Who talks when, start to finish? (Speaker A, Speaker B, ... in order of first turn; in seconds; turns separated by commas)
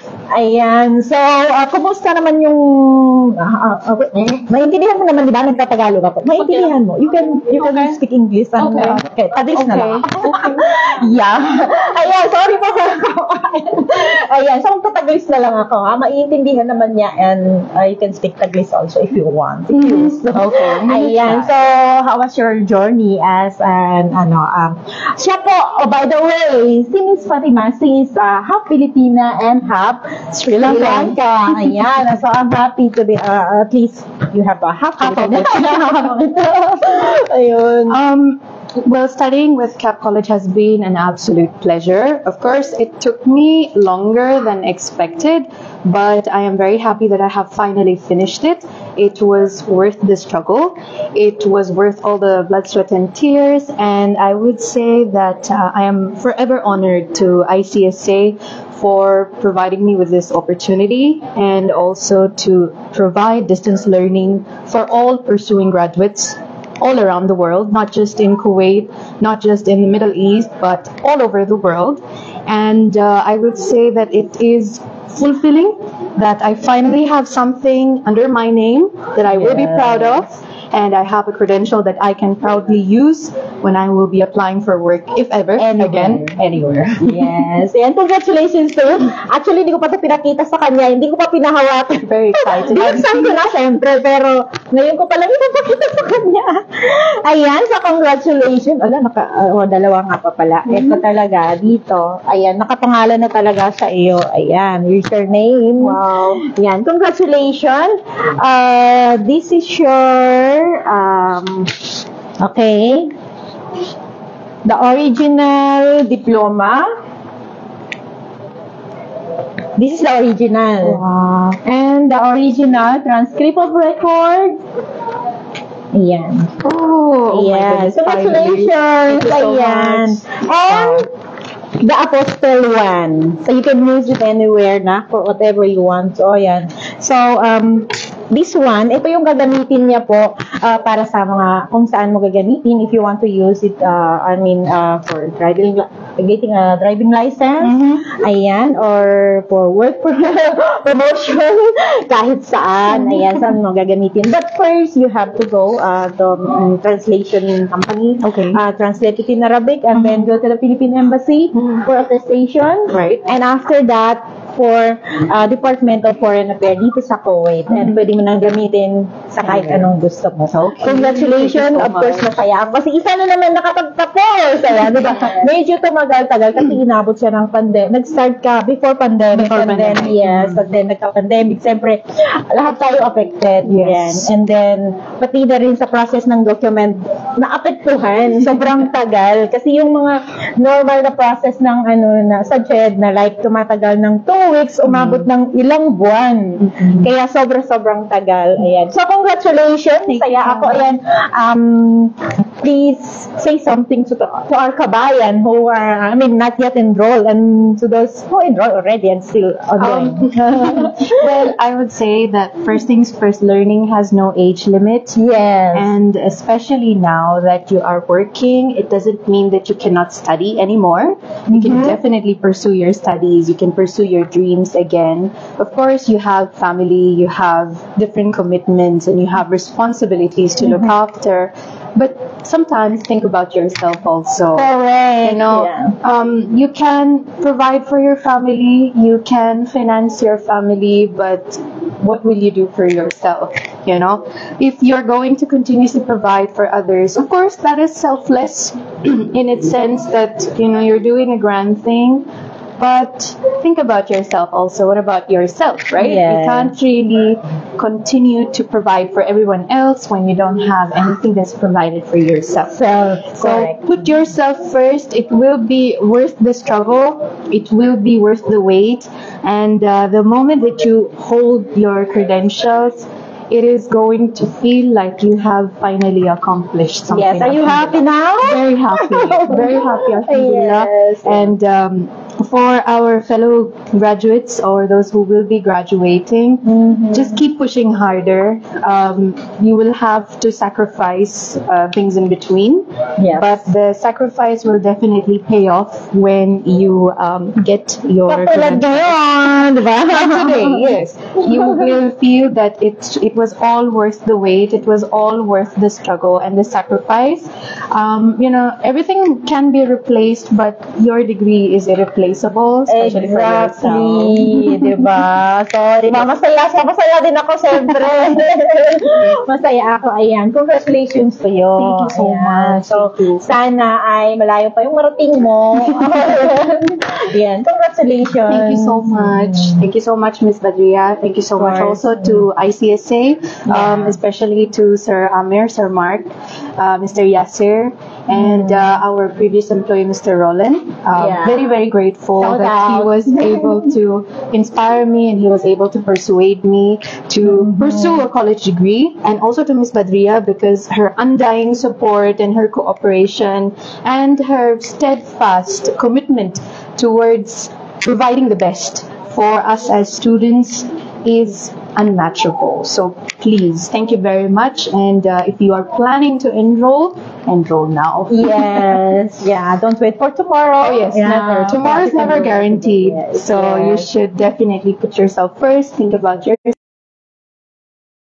Speaker A: 0.3-38.0, Speaker B: 6.4-6.7, Speaker B: 7.5-8.0, Speaker B: 8.6-10.7, Speaker B: 19.7-21.5, Speaker B: 30.3-31.8, Speaker B: 35.0-35.9, Speaker B: 37.9-87.3, Speaker A: 79.3-80.3, Speaker A: 85.6-86.4, Speaker A: 87.0-111.7, Speaker B: 92.0-93.4, Speaker B: 100.7-101.0, Speaker B: 105.8-106.4, Speaker A: 112.4-113.1, Speaker A: 114.6-116.8, Speaker A: 119.8-121.0, Speaker B: 120.8-121.6, Speaker A: 121.6-124.6, Speaker A: 125.9-126.5, Speaker B: 126.6-131.1, Speaker A: 127.3-131.1, Speaker A: 131.8-211.2, Speaker B: 147.6-148.0, Speaker B: 152.9-153.6, Speaker B: 158.2-158.6, Speaker B: 159.9-160.3, Speaker B: 161.5-161.9, Speaker B: 162.9-163.3, Speaker B: 167.7-168.0, Speaker B: 169.4-172.4, Speaker B: 179.3-180.6, Speaker B: 183.6-184.3, Speaker B: 194.8-195.3, Speaker B: 196.6-197.1, Speaker B: 200.1-200.8, Speaker B: 209.8-215.2, Speaker A: 215.2-215.9, Speaker B: 215.7-234.7, Speaker A: 221.5-222.0, Speaker A: 230.6-230.9, Speaker A: 234.5-235.9, Speaker B: 235.2-252.3, Speaker B: 252.8-262.8, Speaker A: 256.0-256.7, Speaker A: 262.7-264.0, Speaker B: 263.4-315.1, Speaker A: 277.1-281.5, Speaker A: 286.6-287.4, Speaker A: 293.2-293.6, Speaker A: 298.3-300.9, Speaker A: 312.9-329.9, Speaker B: 321.7-323.5, Speaker B: 328.4-368.9, Speaker A: 331.6-332.5, Speaker A: 333.6-334.2, Speaker A: 338.3-338.9, Speaker A: 341.1-341.6, Speaker A: 342.4-343.9, Speaker A: 347.4-348.2, Speaker A: 368.3-374.1, Speaker B: 370.8-376.8